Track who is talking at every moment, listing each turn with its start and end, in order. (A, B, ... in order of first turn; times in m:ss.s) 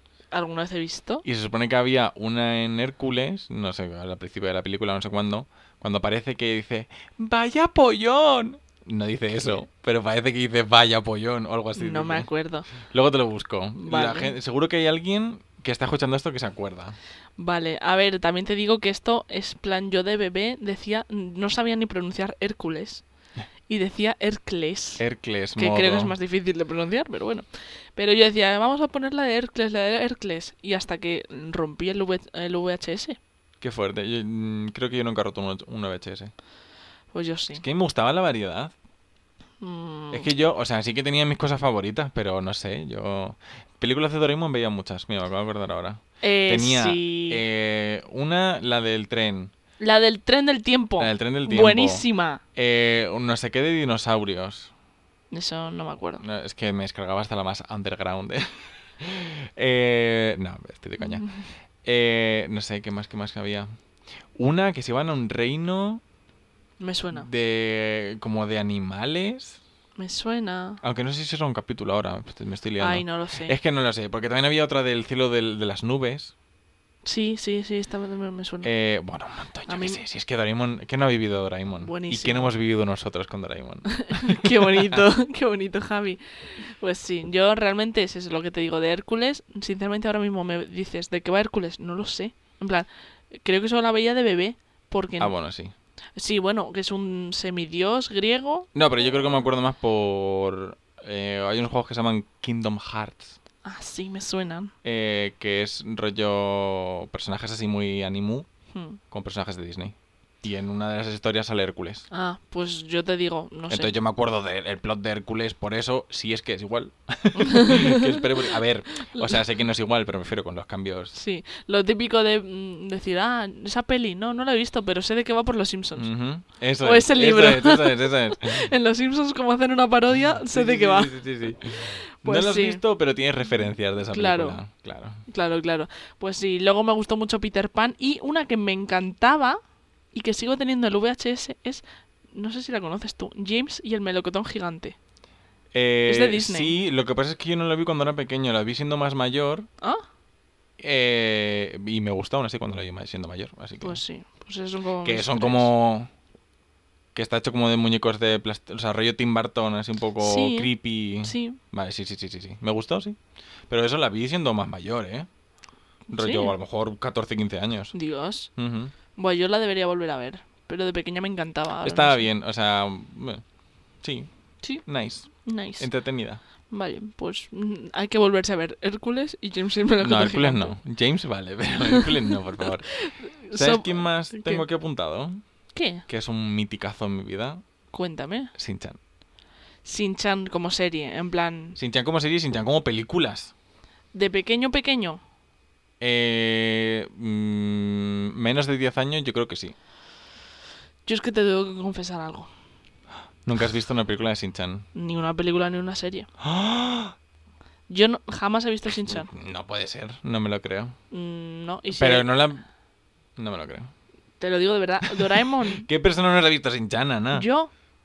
0:00.3-0:01.2 A
0:01.2-0:17.0 B
0:11.8-0:12.7 A
0:13.8-0:14.3 A
0:17.4-0:23.0 A
0:23.7-0:25.0 A
0:25.0-0:26.1 B
0:25.6-0:33.2 A
0:33.6-0:36.3 B
0:37.1-0:37.6 A
0:37.6-0:38.7 B
0:39.6-0:40.3 A
0:40.1-0:49.5 B
0:46.2-0:47.4 A
0:49.8-0:52.4 A
0:51.0-0:54.7 B
0:55.3-0:56.2 A
0:56.2-1:01.3 B
1:01.0-1:01.4 A
1:01.8-1:03.7 B
1:04.4-1:06.0 B
1:06.8-1:07.3 A
1:07.1-1:09.6 B
1:10.0-1:10.8 A
1:10.8-1:16.3 B
1:12.8-1:13.6 A
1:17.0-1:18.7 A
1:18.6-1:25.0 B
1:19.7-1:20.0 A
1:21.8-1:22.5 A
1:23.9-1:35.3 A
1:35.2-1:35.7 B
1:36.2-1:38.7 A
1:38.7-1:43.4 B
1:43.6-1:44.7 A
1:44.8-1:48.5 B
1:48.7-1:49.0 A
1:49.1-1:52.1 B
1:52.1-1:53.9 A
1:53.7-2:01.1 B
1:57.4-1:58.2 A
1:59.0-1:59.4 A
2:01.1-2:06.1 A
2:06.0-2:08.7 B
2:06.8-2:11.2 A
2:10.5-2:15.2 B
2:12.2-2:12.8 A
2:14.1-2:14.6 A
2:15.3-2:19.6 A
2:20.1-2:25.0 A
2:25.7-2:29.7 B
2:26.1-2:26.7 A
2:30.8-2:34.0 B
2:33.8-2:35.7 A
2:35.0-2:36.1 B
2:37.2-2:43.2 B
2:40.2-2:40.7 A
2:41.2-2:41.6 A
2:43.7-2:45.3 B
2:46.1-2:46.5 A
2:46.1-2:47.9 B
2:47.9-2:48.5 A
2:48.6-2:48.9 B
2:49.2-2:52.3 A
2:51.8-2:53.4 B
2:54.0-2:54.3 B
2:54.8-2:56.4 B
2:55.4-2:55.9 A
2:56.7-3:00.8 A
3:00.0-3:02.9 B
3:03.0-3:04.6 A
3:03.5-3:05.4 B
3:05.7-3:06.0 A
3:06.1-3:07.6 B
3:07.9-3:08.5 A
3:08.6-3:09.0 B
3:09.8-3:11.8 A
3:11.8-3:13.5 B
3:14.1-3:15.2 A
3:16.0-3:19.8 B
3:21.1-3:22.5 A
3:23.4-3:24.9 B
3:25.0-3:26.3 A
3:26.4-3:27.2 B
3:27.9-3:29.3 A
3:29.0-3:31.0 B
3:31.1-3:32.3 A
3:31.9-3:32.6 B
3:33.4-3:33.9 B
3:34.4-3:35.9 A
3:35.1-3:37.5 B
3:37.3-3:37.7 A